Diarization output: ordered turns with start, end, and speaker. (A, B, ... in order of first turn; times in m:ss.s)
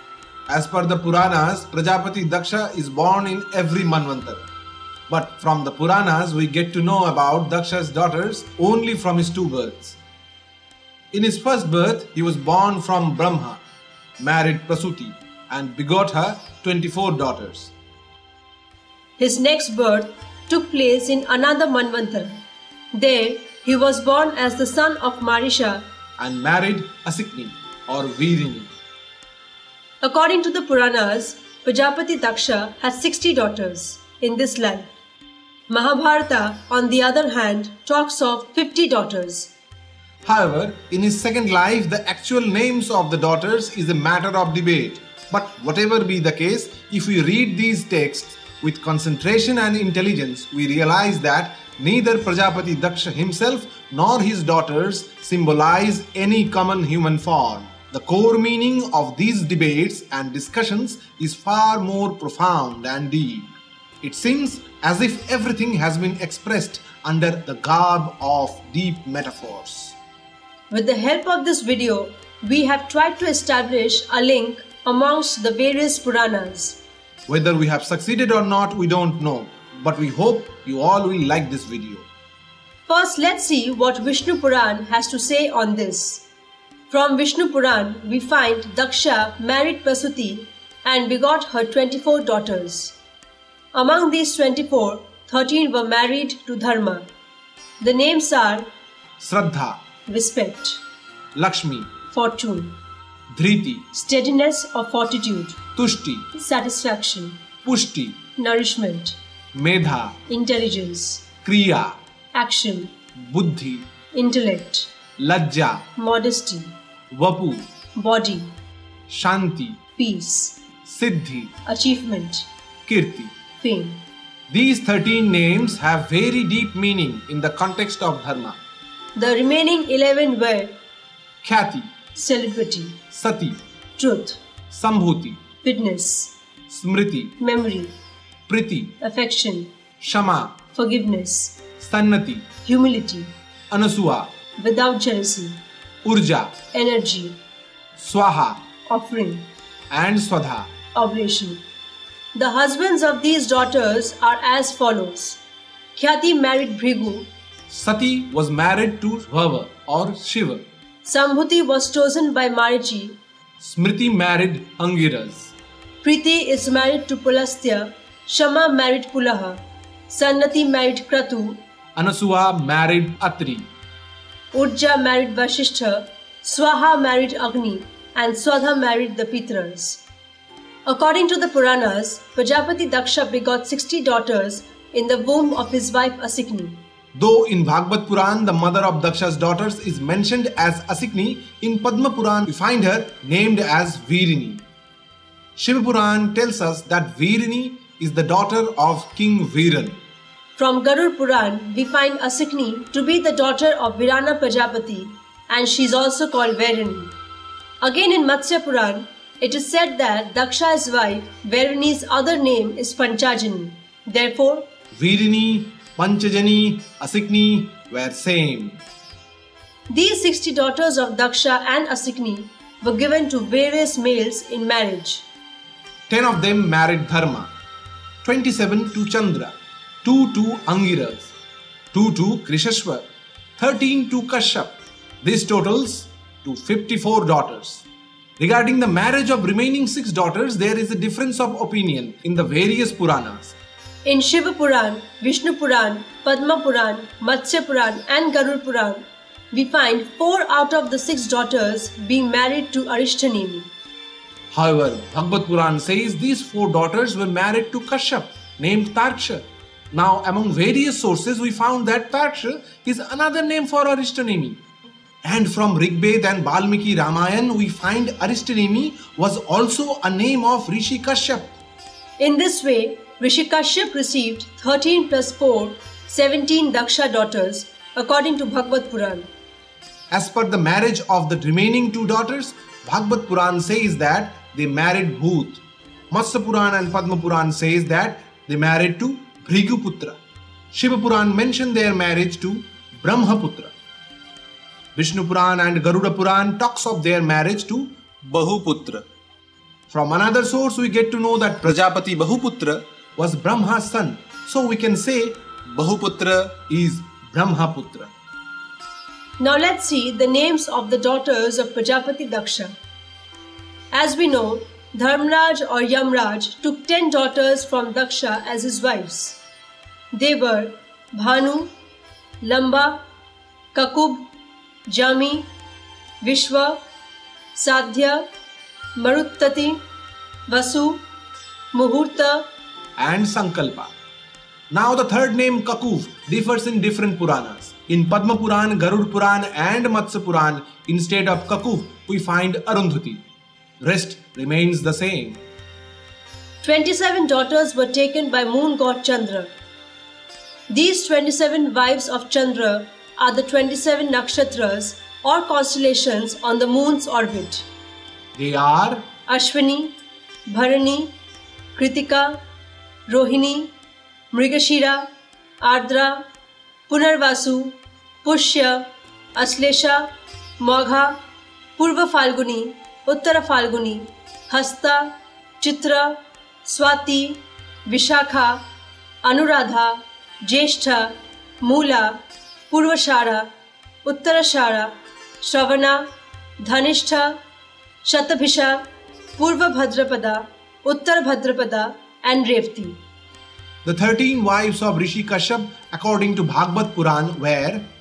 0:00.5-0:04.4 A
0:05.1-0:10.0 A
0:11.1-0:13.6 A
0:14.2-0:17.7 A
0:19.2-0:22.4 B
0:22.9-0:25.8 B
0:26.2-0:28.7 A
0:30.0-0:34.9 B
0:35.7-0:39.5 B
0:40.2-1:10.0 A
1:10.7-1:16.8 B
1:17.3-1:22.1 A
1:22.9-1:26.2 B
1:26.9-1:33.0 B
1:33.7-1:37.1 B
1:37.8-1:38.7 B
1:39.2-1:39.8 A
1:40.1-1:40.8 B
1:41.4-1:41.9 A
1:42.1-1:42.7 B
1:43.3-1:43.8 A
1:43.9-1:45.6 B
1:45.8-1:46.3 A
1:46.4-1:47.4 B
1:47.6-1:48.2 A
1:48.4-1:49.2 B
1:49.5-1:50.2 A
1:50.3-1:51.3 B
1:51.4-1:52.0 A
1:52.4-1:52.9 B
1:53.2-1:53.8 A
1:54.1-1:54.9 B
1:55.2-1:55.8 A
1:56.0-1:56.7 B
1:57.1-1:57.7 A
1:58.0-1:58.5 B
1:59.1-1:59.8 A
2:00.0-2:00.6 B
2:00.9-2:01.5 A
2:01.7-2:02.5 B
2:02.9-2:03.3 A
2:03.6-2:04.0 B
2:04.5-2:08.6 A
2:09.2-2:10.7 B
2:11.4-2:11.9 A
2:12.2-2:13.0 B
2:13.1-2:13.6 A
2:14.0-2:14.4 B
2:14.7-2:15.4 A
2:15.6-2:16.3 B
2:16.7-2:17.4 A
2:17.4-2:17.9 B
2:18.5-2:18.9 A
2:19.0-2:19.7 B
2:20.0-2:20.6 A
2:20.7-2:21.6 B
2:21.8-2:22.5 A
2:22.6-2:23.3 B
2:23.7-2:24.3 A
2:24.6-2:25.6 B
2:26.0-2:26.6 A
2:26.7-2:27.4 B
2:28.0-2:28.6 A
2:28.9-2:29.5 B
2:29.9-2:30.7 A
2:31.0-2:31.6 B
2:32.4-2:35.4 B
2:36.0-2:37.3 B
2:37.7-2:40.6 A
2:41.0-2:43.2 B
2:43.6-2:45.5 A
2:46.0-2:51.6 B
2:52.0-2:53.7 A
2:54.5-3:00.0 B
3:00.9-3:06.8 B
3:07.2-3:14.6 A
3:15.6-3:20.0 A
3:20.6-3:27.1 B
3:27.8-3:34.7 B
3:34.9-3:38.8 A
3:39.9-3:45.3 B
3:46.1-3:47.5 A
3:48.2-3:51.3 A
3:51.9-3:53.0 A
3:53.6-3:57.8 A
3:58.4-4:03.6 A
4:04.1-4:13.7 B
4:14.5-4:24.6 A
4:25.2-4:31.5 A
4:32.2-4:39.3 B
4:40.1-4:50.2 A
4:50.7-4:53.7 A
4:55.0-4:59.0 A
4:59.9-5:08.1 A
5:09.4-5:12.7 B
5:13.9-5:19.4 B
5:20.1-5:21.7 B
5:22.4-5:23.0 B
5:23.7-5:24.2 B
5:24.9-5:25.5 B
5:26.2-5:26.8 B
5:27.6-5:28.2 B
5:29.0-5:29.8 B
5:30.5-5:31.0 B
5:31.7-5:32.4 B
5:33.0-5:33.9 A
5:34.7-5:43.2 A
5:43.8-5:45.4 A
5:46.6-5:49.5 B
5:50.7-5:57.7 B
5:58.4-5:59.0 A
5:59.3-5:59.9 B
6:00.5-6:01.1 B
6:01.8-6:02.4 B
6:03.1-6:03.7 B
6:04.3-6:05.1 B
6:05.6-6:06.2 B
6:06.9-6:08.8 B
6:09.4-6:10.1 B
6:10.6-6:11.2 B
6:11.8-6:18.6 B
6:19.2-6:22.2 B
6:22.7-6:23.5 B
6:24.0-6:26.0 B
6:26.6-6:27.4 B
6:28.0-6:28.8 B
6:29.4-6:33.0 B
6:33.8-6:37.8 A